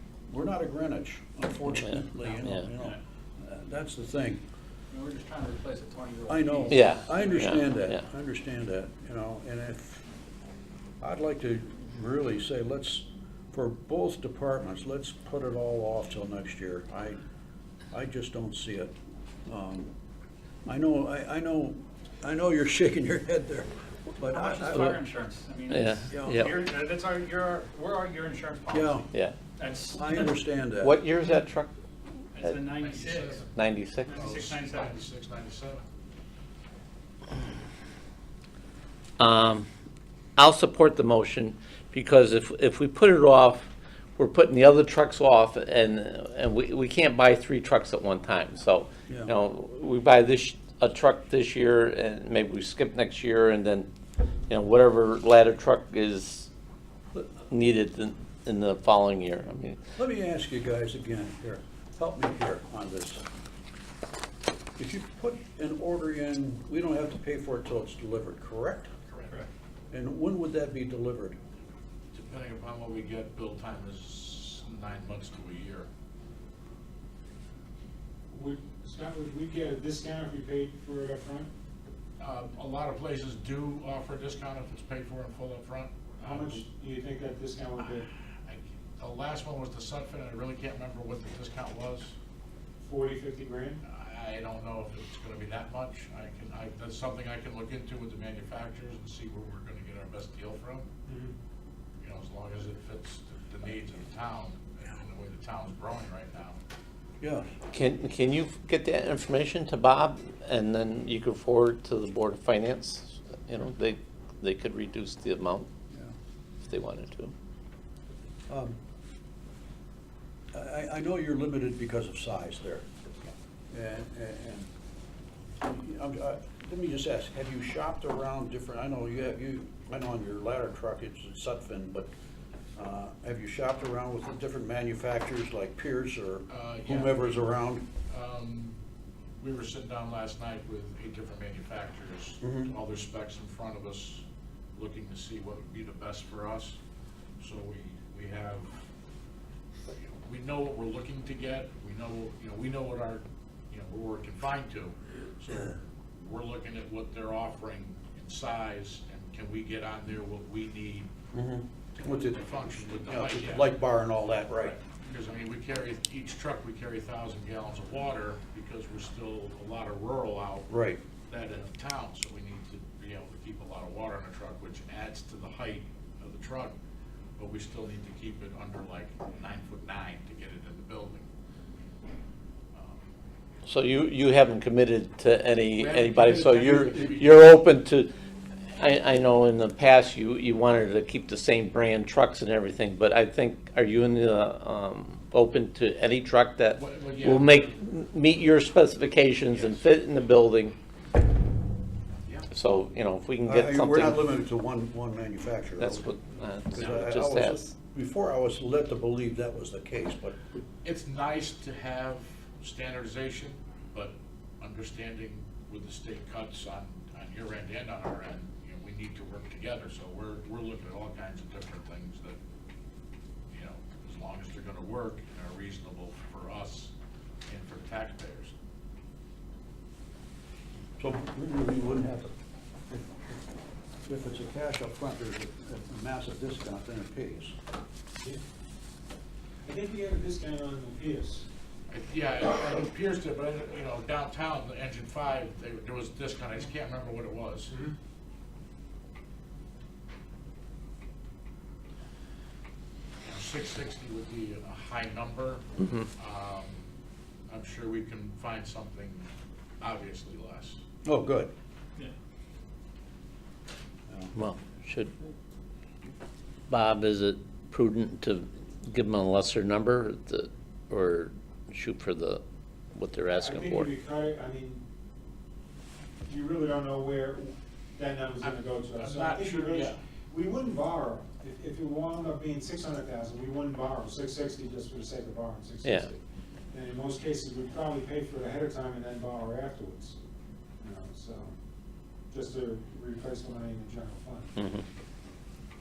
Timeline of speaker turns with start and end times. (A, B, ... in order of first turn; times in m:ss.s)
0:00.3-0:04.4 A
0:01.8-0:02.6 B
0:04.9-0:07.5 C
0:06.3-0:10.0 A
0:06.7-0:08.0 B
0:11.0-0:17.2 A
0:17.9-0:18.9 A
0:19.5-0:19.9 A
0:20.7-0:25.0 A
0:24.3-0:30.3 C
0:25.7-0:26.6 B
0:26.1-0:26.5 A
0:28.7-0:29.0 A
0:29.9-0:31.0 A
0:30.8-0:31.7 B
0:32.3-0:33.4 C
0:32.8-0:33.5 D
0:33.5-0:34.1 B
0:34.0-0:35.0 C
0:34.1-0:35.8 D
0:39.2-0:39.7 B
0:40.4-0:53.9 B
0:49.1-0:49.3 A
0:54.5-0:56.5 B
0:57.1-0:59.8 B
1:00.0-1:03.2 A
1:04.8-1:08.9 A
1:09.1-1:09.4 D
1:09.9-1:11.4 A
1:12.1-1:15.9 D
1:18.3-1:21.5 E
1:22.2-1:26.7 D
1:26.2-1:28.1 E
1:27.9-1:32.1 D
1:32.8-1:33.8 E
1:33.8-1:40.9 D
1:41.0-1:41.3 E
1:42.0-1:46.6 D
1:47.2-1:47.5 A
1:47.7-1:55.7 B
1:56.7-1:57.3 B
1:58.5-1:58.8 A
2:00.5-2:02.8 A
2:03.7-2:04.7 A
2:05.6-2:12.1 A
2:12.8-2:17.8 A
2:16.5-2:17.6 D
2:18.1-2:18.8 D
2:19.4-2:26.8 D
2:22.4-2:22.7 A
2:27.4-2:28.8 D
2:29.9-2:41.1 D
2:41.3-2:44.8 A
2:42.0-2:43.8 D
2:44.6-2:56.8 D
2:50.7-2:51.0 A
2:57.4-3:01.3 D
3:02.7-3:03.0 D
3:03.7-3:08.1 B
3:05.7-3:07.5 D
3:08.7-3:20.8 B
3:16.8-3:17.6 D
3:19.5-3:20.0 D
3:22.1-3:22.5 D
3:22.5-3:24.3 B
3:23.4-3:30.4 A
3:25.8-3:27.7 B
3:30.8-3:42.4 D
3:43.5-3:46.9 D
3:47.5-3:48.5 D
3:51.0-3:52.3 A
3:54.1-3:57.6 A
3:59.6-4:01.5 E
4:01.9-4:07.7 D
4:13.2-4:16.8 D
4:15.8-4:16.1 B
4:17.5-4:20.8 D
4:21.0-4:21.5 A
4:24.1-4:24.3 A
4:24.3-4:25.1 B
4:26.7-4:32.4 B
4:32.9-4:33.9 B
4:33.3-4:34.8 E
4:36.2-4:46.2 E
4:38.4-4:40.0 D
4:45.8-4:46.1 B
4:46.7-4:50.2 E
4:50.8-4:51.5 E
4:52.3-4:54.5 E
4:54.6-4:54.8 B